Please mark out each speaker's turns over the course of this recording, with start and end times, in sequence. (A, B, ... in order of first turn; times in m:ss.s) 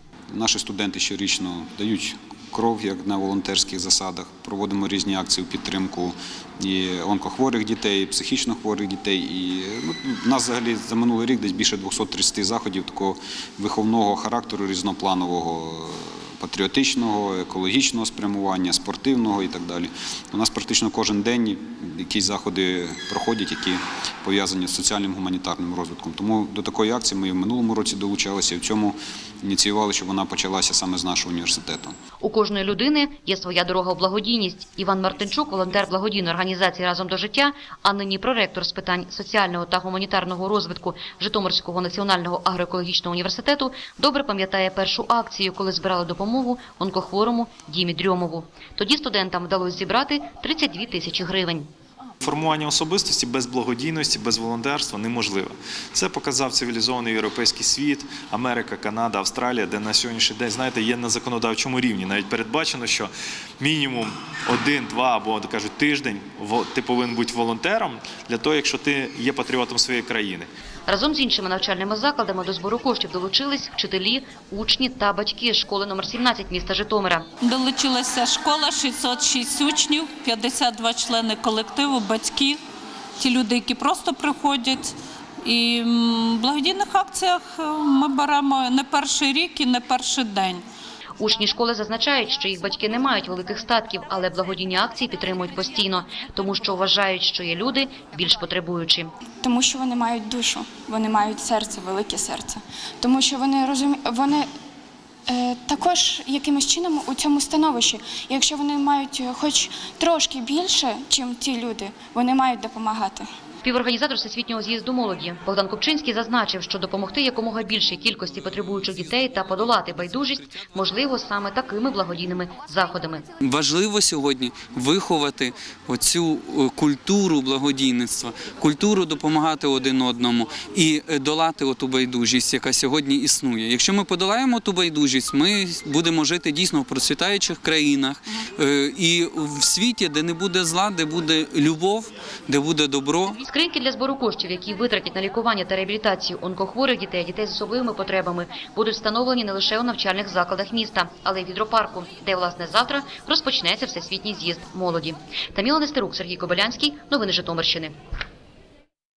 0:00.3-0:32.0 A
0:32.2-0:51.7 B
0:52.2-1:10.5 C
1:10.9-1:17.3 B
1:17.4-1:22.6 D
1:23.2-1:30.6 D
1:31.2-1:39.1 B
1:39.4-1:44.5 E
1:45.3-1:53.3 E
1:53.6-2:03.2 B
2:03.4-2:23.4 F
2:23.4-2:37.9 B